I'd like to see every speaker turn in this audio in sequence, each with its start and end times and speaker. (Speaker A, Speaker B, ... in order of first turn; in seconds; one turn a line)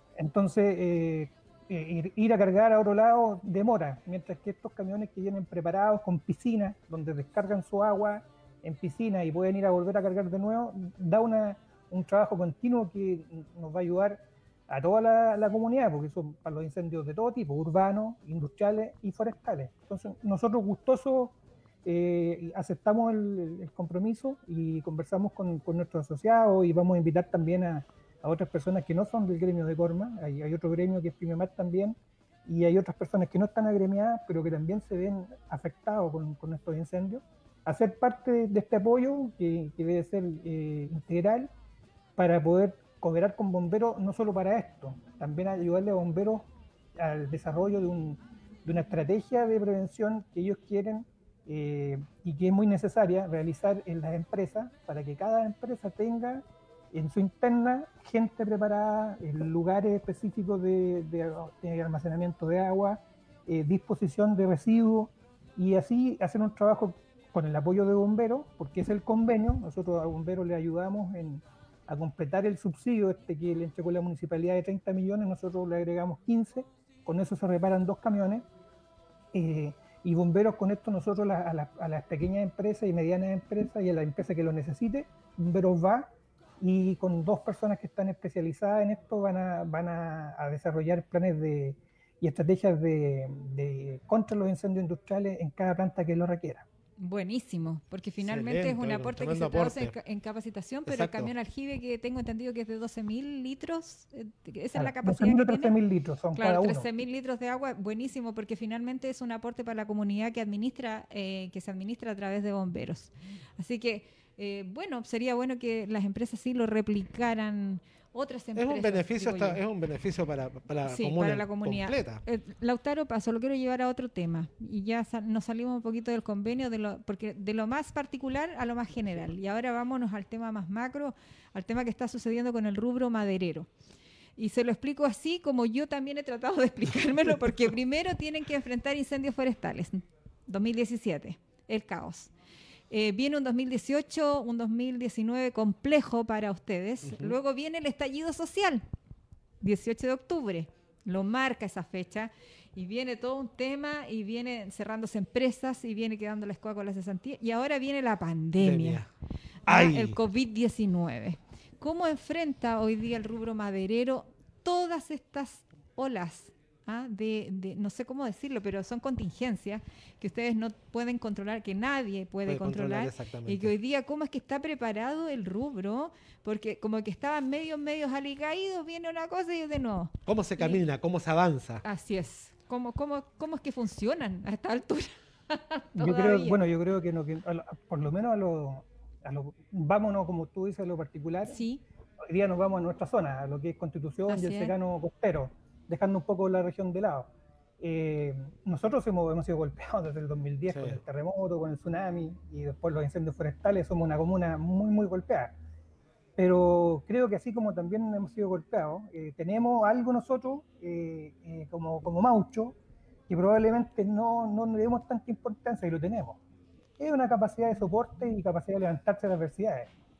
Speaker A: 0.1-41.5
Speaker A: 42.1-78.5
Speaker A: 79.3-96.7
Speaker B: 97.0-105.7
Speaker C: 98.2-99.9
Speaker C: 100.8-101.3
Speaker A: 104.7-106.9
Speaker B: 106.3-119.6
Speaker C: 118.6-122.2
Speaker B: 120.8-133.7
Speaker B: 134.4-142.3
Speaker B: 142.9-148.8
Speaker C: 147.0-147.4
Speaker B: 149.6-159.0
Speaker C: 158.6-159.1
Speaker C: 159.7-160.2
Speaker B: 159.7-180.8
Speaker C: 172.4-173.7
Speaker C: 180.2-181.8
Speaker B: 181.8-186.6
Speaker A: 185.9-191.6
Speaker B: 191.4-191.8
Speaker A: 192.2-205.6
Speaker B: 194.3-194.7
Speaker C: 200.7-201.0
Speaker A: 206.4-212.8
Speaker A: 213.3-216.4
Speaker A: 217.0-219.9